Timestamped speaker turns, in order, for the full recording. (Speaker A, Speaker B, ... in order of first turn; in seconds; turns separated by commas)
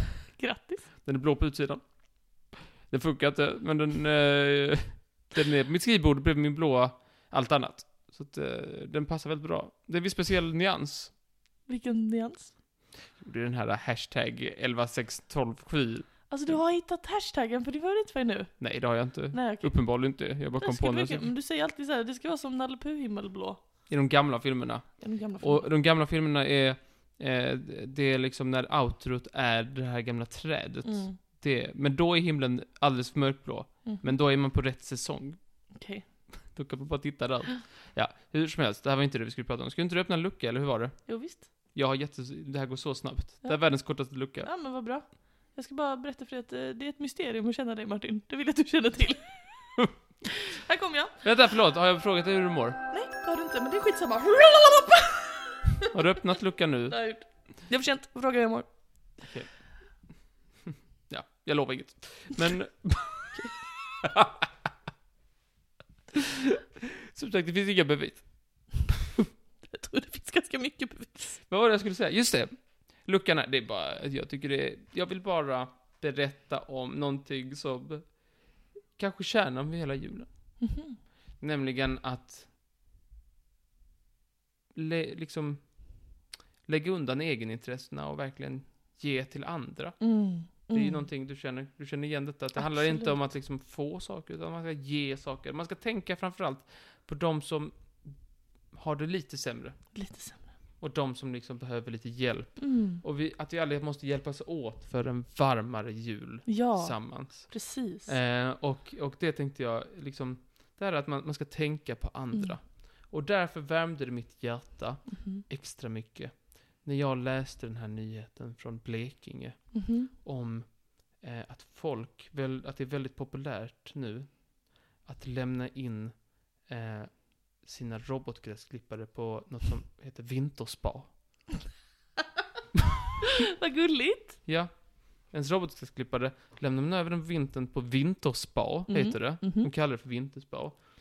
Speaker A: 0.3-0.9, Speaker B: 1.0-11.1, Speaker A: 11.7-12.5, Speaker B: 13.1-16.6, Speaker A: 16.3-23.9, Speaker B: 18.6-21.3, Speaker B: 23.9-35.7, Speaker A: 25.0-25.7, Speaker A: 30.8-31.2, Speaker A: 33.8-34.1, Speaker A: 35.7-36.3, Speaker B: 36.4-44.5, Speaker A: 41.1-41.5, Speaker A: 44.4-51.1, Speaker B: 51.2-52.8, Speaker A: 52.9-55.9, Speaker B: 55.9-57.0, Speaker A: 56.9-59.1, Speaker B: 59.2-60.3, Speaker B: 61.1-64.5, Speaker B: 67.1-68.9, Speaker A: 69.7-71.4, Speaker B: 71.5-80.6, Speaker A: 80.6-81.0, Speaker B: 81.4-82.5, Speaker B: 84.7-100.0, Speaker A: 90.0-91.1, Speaker A: 92.5-93.3, Speaker A: 99.9-100.5, Speaker B: 100.8-131.1, Speaker A: 102.6-103.0, Speaker A: 106.5-108.2, Speaker A: 112.3-112.6, Speaker A: 115.2-115.4, Speaker A: 119.7-120.1, Speaker A: 133.4-134.4, Speaker B: 134.4-140.8, Speaker A: 138.9-139.7